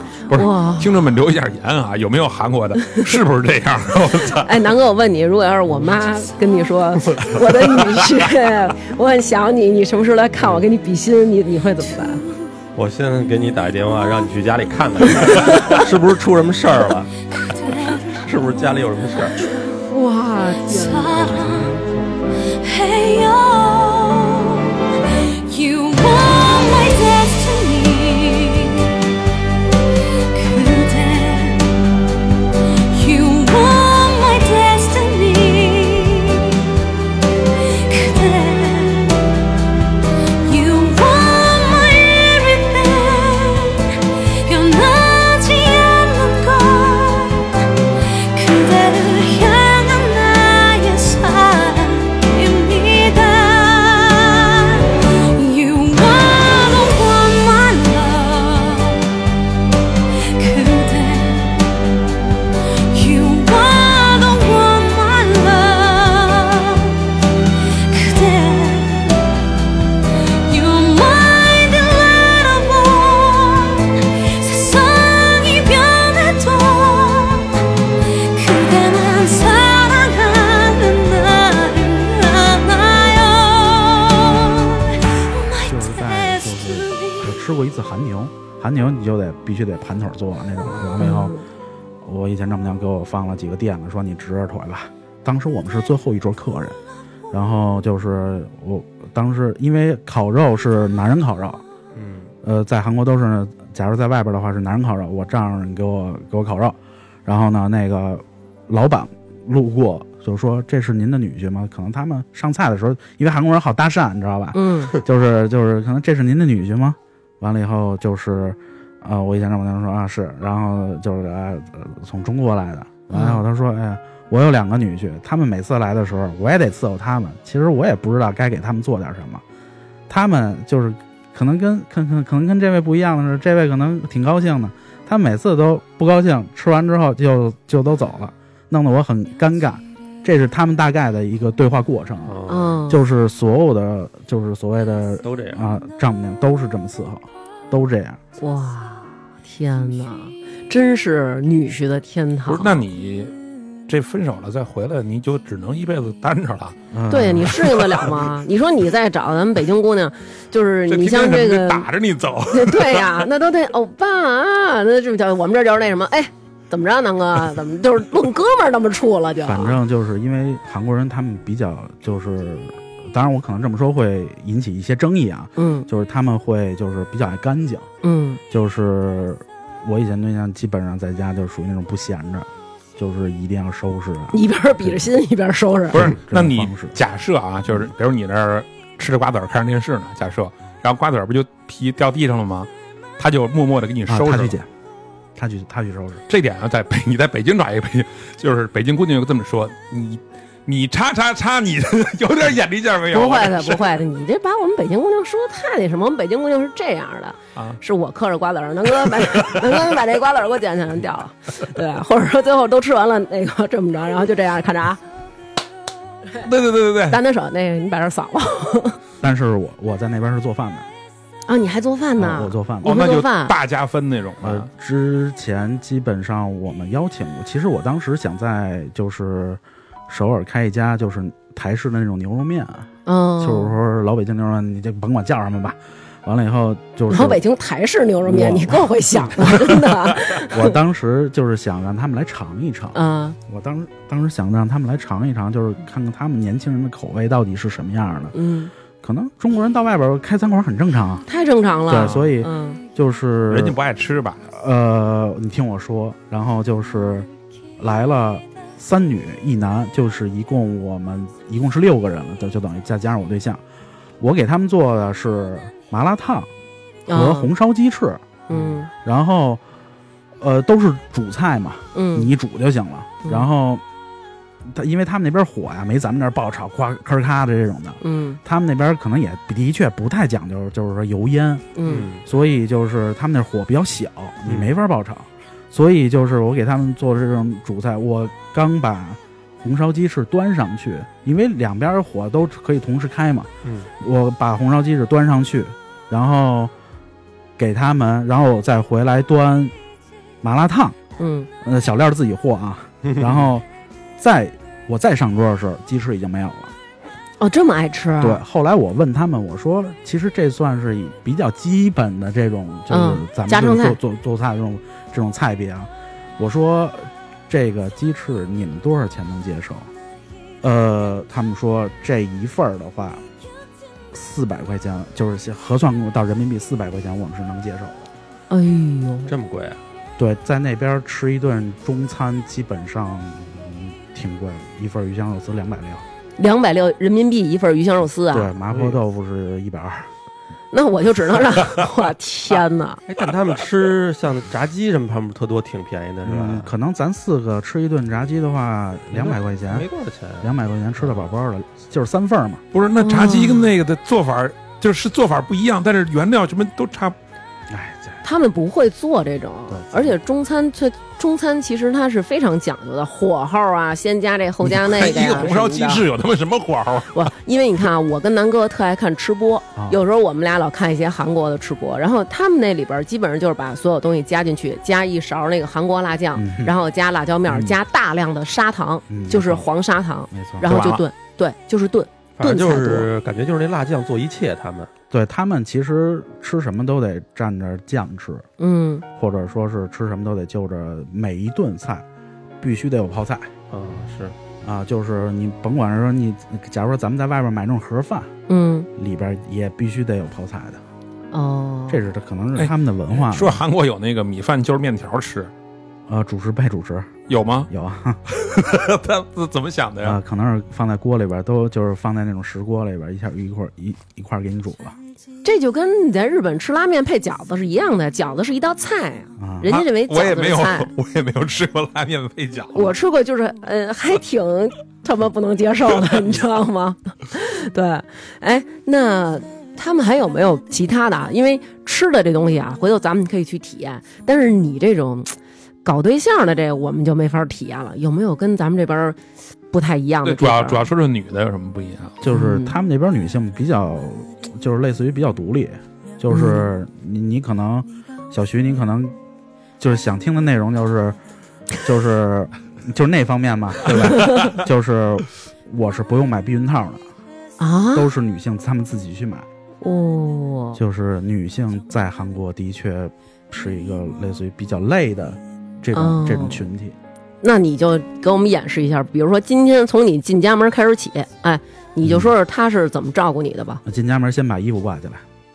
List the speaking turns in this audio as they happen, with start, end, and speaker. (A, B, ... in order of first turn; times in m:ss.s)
0:00.3-0:04.5 A
0:00.3-0:00.9 B
0:04.4-0:12.2 B
0:12.7-0:17.1 C
0:15.3-0:15.8 B
0:17.4-0:18.2 D
0:18.0-0:19.4 C
0:19.8-0:21.3 B
0:20.6-0:21.8 D
0:21.2-0:21.9 C
0:22.5-0:28.9 D
0:30.3-0:31.8 D
0:32.9-0:36.6 D
0:37.7-0:39.2 D
0:40.4-0:47.5 D
0:48.3-0:59.2 D
1:00.3-1:01.6 D
1:02.9-1:07.0 D
1:07.8-1:09.2 D
1:10.4-1:17.6 D
1:18.1-1:27.3 D
1:25.6-1:31.3 E
1:30.6-1:31.1 C
1:31.0-1:31.4 B
1:32.0-1:36.8 E
1:37.3-1:41.6 E
1:41.9-1:42.3 C
1:42.4-2:09.4 E
1:54.5-1:54.9 B
2:03.1-2:03.4 B
2:10.1-2:28.2 E
2:22.2-2:22.8 C
2:22.5-2:23.0 B
2:25.2-2:25.7 C
2:28.4-2:32.8 B
2:32.4-2:33.3 A
2:33.9-2:36.8 A
2:36.9-2:37.6 E
2:37.1-2:41.9 B
2:37.5-2:38.2 A
2:40.9-2:43.2 A
2:42.5-2:49.8 B
2:49.4-2:57.9 E
2:55.6-2:55.9 B
2:58.0-2:58.4 B
2:58.5-3:05.0 E
3:04.3-3:06.0 B
3:05.9-3:07.0 E
3:05.9-3:14.6 A
3:14.1-3:14.7 E
3:15.4-3:16.2 E
3:16.3-3:23.9 A
3:23.1-3:35.0 B
3:29.2-3:29.7 A
3:36.4-3:37.2 A
3:37.1-3:39.0 B
3:39.2-3:40.9 E
3:41.5-3:43.5 B
3:42.2-3:43.0 E
3:42.8-3:44.7 A
3:44.4-3:57.4 E
3:53.0-3:53.8 B
3:57.1-4:00.7 B
3:58.2-4:08.3 E
4:02.9-4:03.4 B
4:08.3-4:08.7 B
4:09.0-4:11.2 E
4:11.2-4:12.8 B
4:11.9-4:13.8 E
4:12.0-4:12.3 A
4:13.5-4:14.4 A
4:14.5-4:23.6 E
4:24.2-4:26.5 E
4:27.1-4:27.5 B
4:27.1-4:29.6 E
4:28.5-4:28.9 B
4:30.4-4:33.8 E
4:31.9-4:32.3 B
4:34.7-4:56.7 E
4:38.0-4:38.4 B
4:41.7-4:42.1 B
4:41.8-4:42.2 C
4:44.4-4:44.7 C
4:53.6-4:53.9 C
4:57.6-4:59.7 E
5:00.4-5:01.0 E
5:01.2-5:01.5 B
5:01.6-5:03.6 E
5:03.0-5:03.5 C
5:04.2-5:06.7 E
5:07.4-5:08.4 B
5:08.2-5:19.9 E
5:12.9-5:14.0 B
5:20.6-5:23.2 E
5:24.1-5:28.1 E
5:28.5-5:29.3 B
5:29.3-5:29.8 C
5:30.2-5:36.0 E
5:36.4-5:38.5 B
5:38.3-5:40.1 E
5:38.7-5:39.0 C
5:40.7-5:43.0 B
5:43.1-5:46.7 C
5:46.2-5:49.9 E
5:49.1-5:51.3 C
5:50.4-5:52.6 E
5:52.7-5:57.2 A
5:53.0-5:53.7 B
5:57.7-5:58.2 E
5:58.2-6:06.0 B
5:59.7-6:00.1 E
6:04.6-6:07.3 A
6:07.1-6:23.1 B
6:16.3-6:16.7 E
6:17.5-6:17.7 E
6:19.1-6:19.7 E
6:20.3-6:20.7 E
6:20.6-6:21.0 A
6:22.4-6:24.9 C
6:25.1-6:28.5 E
6:28.6-6:29.0 B
6:29.2-6:32.0 E
6:32.6-6:33.5 E
6:33.7-6:34.3 C
6:34.6-6:38.3 E
6:38.5-6:38.9 B
6:39.0-6:40.8 E
6:41.3-6:42.0 B
6:41.9-6:43.6 E
6:42.6-6:45.5 A
6:46.1-6:47.1 E
6:47.3-6:47.7 A
6:47.7-6:48.2 E
6:48.3-6:50.2 A
6:50.0-6:55.0 E
6:55.4-7:00.9 B
6:59.4-6:59.7 E
6:59.7-7:02.9 A
7:02.7-7:19.2 B
7:19.7-7:20.9 B
7:20.2-7:22.2 A
7:22.2-7:29.1 E
7:22.3-7:22.7 B
7:26.3-7:26.7 B
7:29.8-7:31.2 E
7:31.8-7:37.0 E
7:34.1-7:34.5 B
7:37.6-7:38.1 B
7:37.9-7:39.4 E
7:39.8-7:40.8 B
7:40.7-7:47.0 E
7:45.9-7:46.6 B
7:47.4-7:53.8 B
7:52.0-7:52.3 E
7:53.8-7:55.2 E